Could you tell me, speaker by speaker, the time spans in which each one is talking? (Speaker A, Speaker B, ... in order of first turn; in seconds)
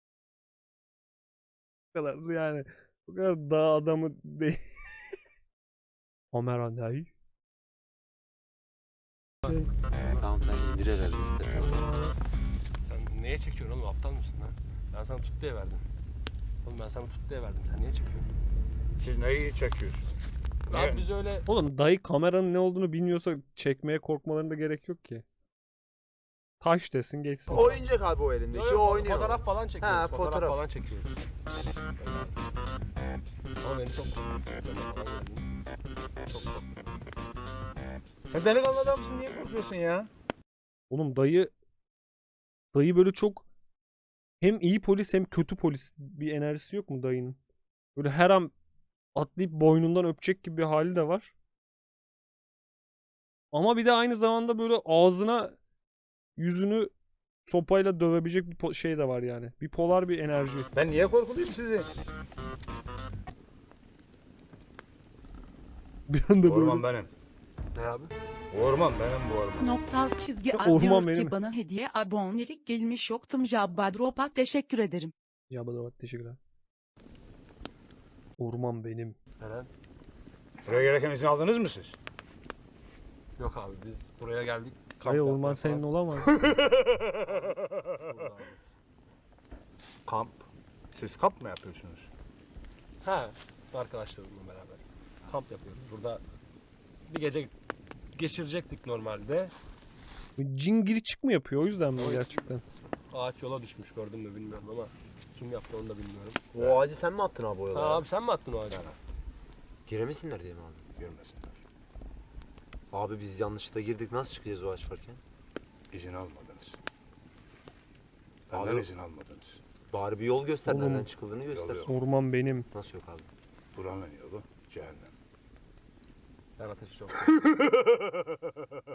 Speaker A: 1.9-4.8, 6.3-7.1, 21.5-25.2, 26.6-27.8, 40.9-41.5, 42.7-43.5, 44.4-47.4, 48.0-48.5, 49.1-51.3, 53.5-55.6, 56.4-56.9, 57.5-60.7, 66.1-66.9, 70.5-71.3, 75.5-76.4, 78.4-79.2, 85.0-86.3, 100.4-102.6, 120.7-121.1, 121.8-122.7
Speaker B: 10.1-11.9, 27.5-30.6, 106.5-108.1, 109.9-110.9, 112.9-115.2, 118.5-118.9, 119.9-121.9, 122.7-123.3
Speaker C: 12.8-15.8, 16.6-18.3, 20.7-21.5, 28.5-31.2, 32.0-32.4, 33.6-35.5, 36.2-36.9, 67.7-68.1, 79.4-79.7, 83.4-85.8, 87.2-88.6, 93.0-96.2, 97.1-97.5, 98.2-99.5, 102.0-102.3, 103.1-106.4, 107.7-109.0, 126.6-127.4
Speaker D: 19.0-20.0, 20.7-21.1, 38.3-40.1, 60.8-61.9, 66.4-67.1, 68.5-69.7, 80.6-82.0, 86.4-87.4, 90.1-90.4, 90.9-92.1, 106.6-106.8, 111.0-111.6, 115.9-116.8, 118.5-119.6, 121.5-121.9, 123.8-125.1, 127.7-128.0
Speaker E: 69.6-75.1